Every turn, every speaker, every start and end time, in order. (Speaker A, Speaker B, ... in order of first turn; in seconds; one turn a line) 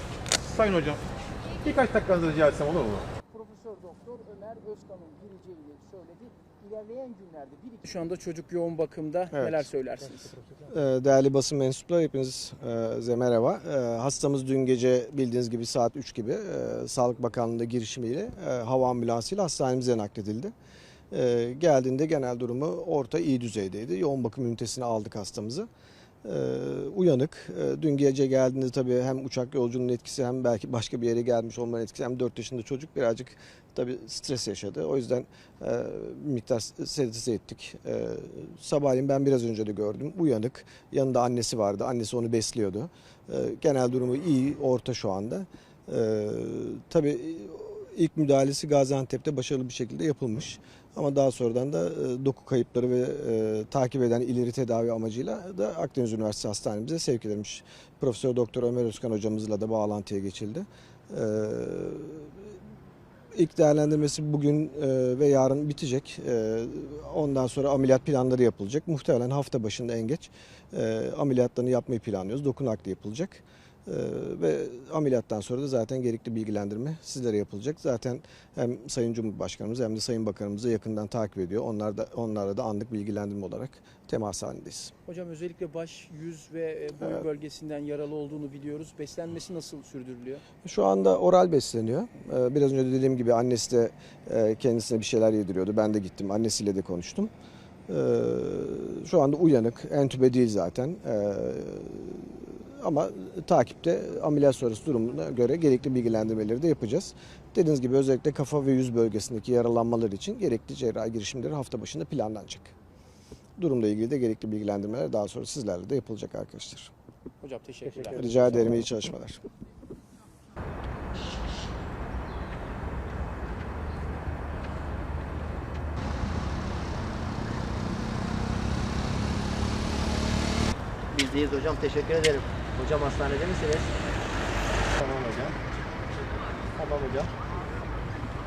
Speaker A: 0.4-1.0
Speaker A: 1.6-3.1
Speaker B: 3.3-10.4
Speaker C: 9.3-9.7
Speaker C: 10.7-20.5
Speaker C: 21.1-25.7
Speaker C: 26.2-62.5
Speaker C: 63.3-84.9
Speaker B: 85.1-90.4
Speaker C: 90.6-97.3
Speaker C: 97.9-112.7
Speaker C: 113.6-116.9
Speaker B: 117.4-118.5
Speaker C: 118.1-119.4
Speaker D: 131.1-133.9
Speaker A: 135.0-135.6
Speaker A: 136.8-137.3